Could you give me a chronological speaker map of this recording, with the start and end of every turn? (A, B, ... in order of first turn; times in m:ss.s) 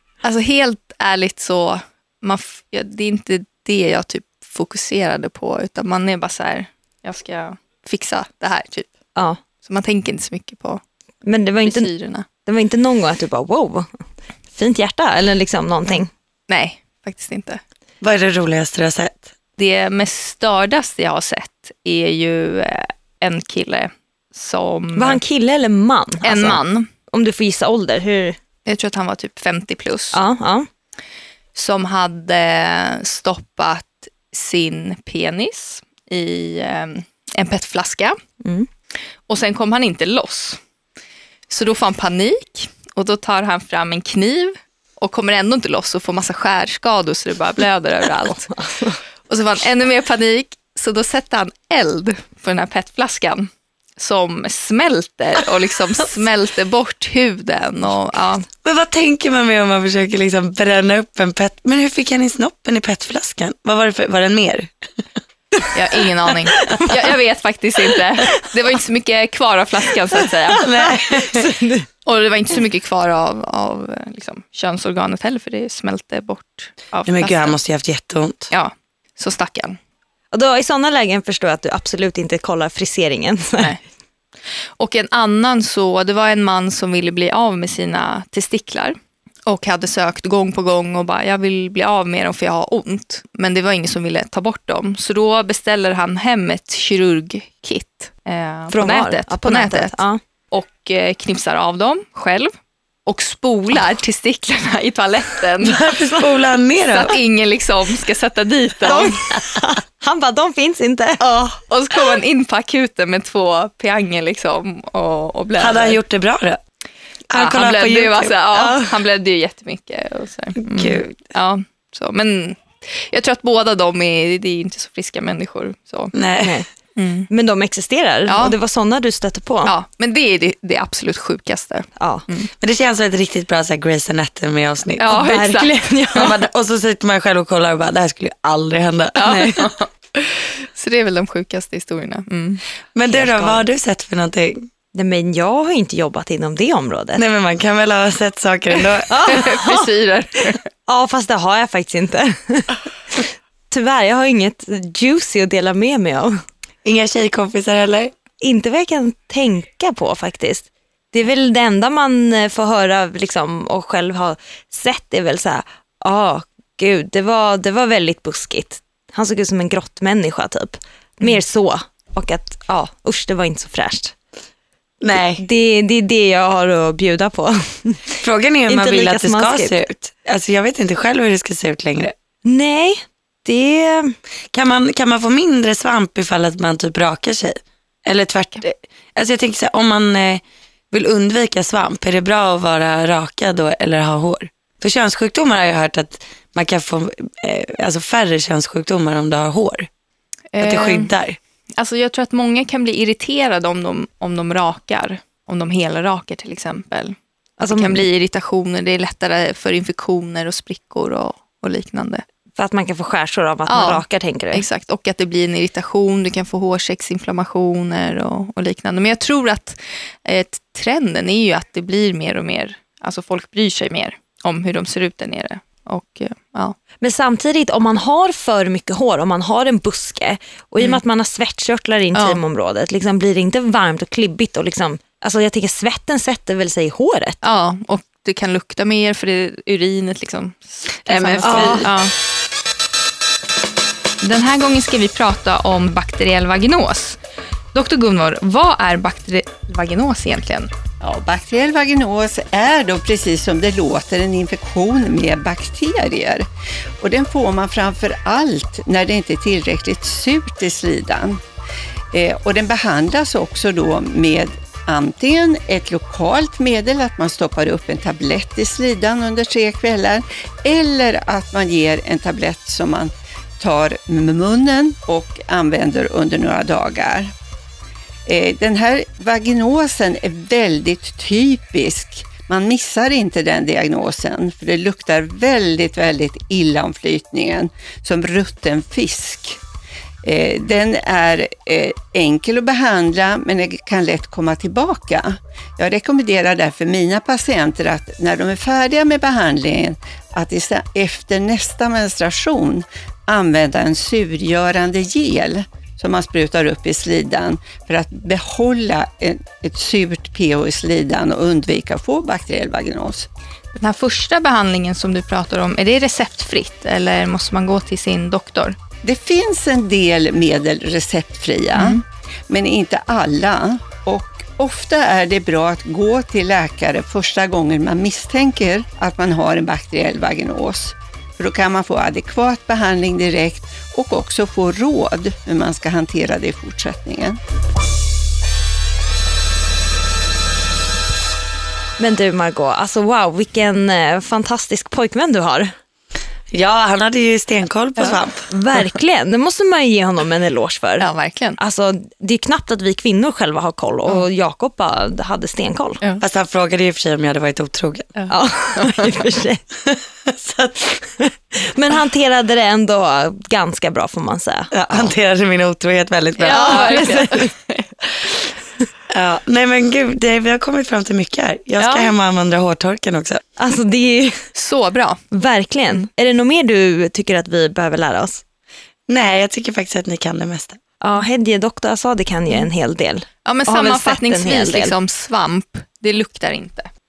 0:00.2-0:08.9 A
0:09.6-0:10.8 A
0:11.2-0:11.9 B
0:11.6-0:12.3 A
0:12.4-0:13.9 B
0:14.5-0:16.1 B
0:16.5-0:17.6 A
0:18.0-0:19.3 C
0:19.6-0:25.2 A
0:25.0-0:28.4 B
0:26.2-0:26.9 A
0:28.7-0:30.2 A
0:30.1-0:30.7 B
0:31.6-0:38.2 A
0:38.4-0:38.7 B
0:39.3-0:40.6 A
0:41.5-0:48.6 A
0:48.6-0:49.0 B
0:49.3-0:58.5 A
0:58.6-1:04.7 C
1:05.7-1:10.6 A
1:06.5-1:06.9 B
1:10.6-1:11.9 B
1:10.6-1:11.5 C
1:12.1-1:17.6 A
1:17.1-1:18.5 C
1:18.5-1:19.8 A
1:20.3-1:23.7 B
1:24.8-1:42.5 A
1:38.7-1:40.2 B
1:43.1-1:45.8 A
1:45.6-1:47.2 C
1:46.9-1:49.2 A
1:48.9-1:51.6 B
1:51.7-1:56.0 A
1:55.6-1:56.6 C
1:57.3-1:58.4 C
1:57.3-2:06.2 A
1:58.5-1:58.9 B
2:00.6-2:01.1 C
2:06.1-2:06.6 C
2:06.4-2:06.7 B
2:07.0-2:07.3 A
2:07.3-2:09.7 B
2:08.3-2:08.6 A
2:09.6-2:12.5 A
2:12.0-2:12.2 B
2:12.6-2:15.2 C
2:15.0-2:16.4 A
2:15.1-2:16.1 B
2:16.1-2:19.4 C
2:19.2-2:22.6 A
2:19.2-2:19.7 B
2:23.0-2:24.7 C
2:23.1-2:23.6 B
2:24.9-2:27.2 B
2:27.2-2:29.6 C
2:29.1-2:29.9 B
2:29.2-2:30.7 A
2:30.9-2:36.4 B
2:36.8-2:38.2 C
2:38.4-2:54.2 B
2:55.0-2:55.4 C
2:55.4-2:58.0 B
2:58.2-3:02.1 C
2:58.7-2:59.8 B
3:02.4-3:04.1 B
3:04.5-3:19.9 C
3:20.5-3:21.1 A
3:20.6-3:21.4 C
3:21.8-3:32.2 A
3:27.6-3:28.0 B
3:32.6-3:34.6 B
3:33.7-3:46.8 A
3:47.0-3:57.4 B
3:57.4-4:02.1 A
4:01.1-4:01.9 C
4:01.4-4:01.9 B
4:04.2-4:07.2 A
4:07.7-4:10.7 A
4:11.0-4:16.5 D
4:17.0-4:21.4 D
4:22.1-4:37.3 D
4:38.3-4:49.6 D
4:50.2-5:13.3 D
5:13.8-5:18.8 A
5:19.0-5:37.4 D
5:21.8-5:22.0 A
5:42.0-5:45.7 B
5:46.5-5:48.5 C
5:48.5-5:56.0 B
5:51.0-5:51.6 A
5:56.2-5:58.1 C
5:58.2-5:59.2 A
5:58.3-5:59.6 B
5:59.9-6:01.0 C
6:01.2-6:05.1 B
6:04.7-6:07.1 C
6:06.4-6:07.9 A
6:06.5-6:07.5 B
6:09.1-6:13.4 C
6:11.8-6:12.1 A
6:13.6-6:14.4 B
6:14.6-6:15.2 A
6:15.3-6:18.4 B
6:19.1-6:20.8 C
6:21.0-6:24.9 B
6:23.4-6:26.9 A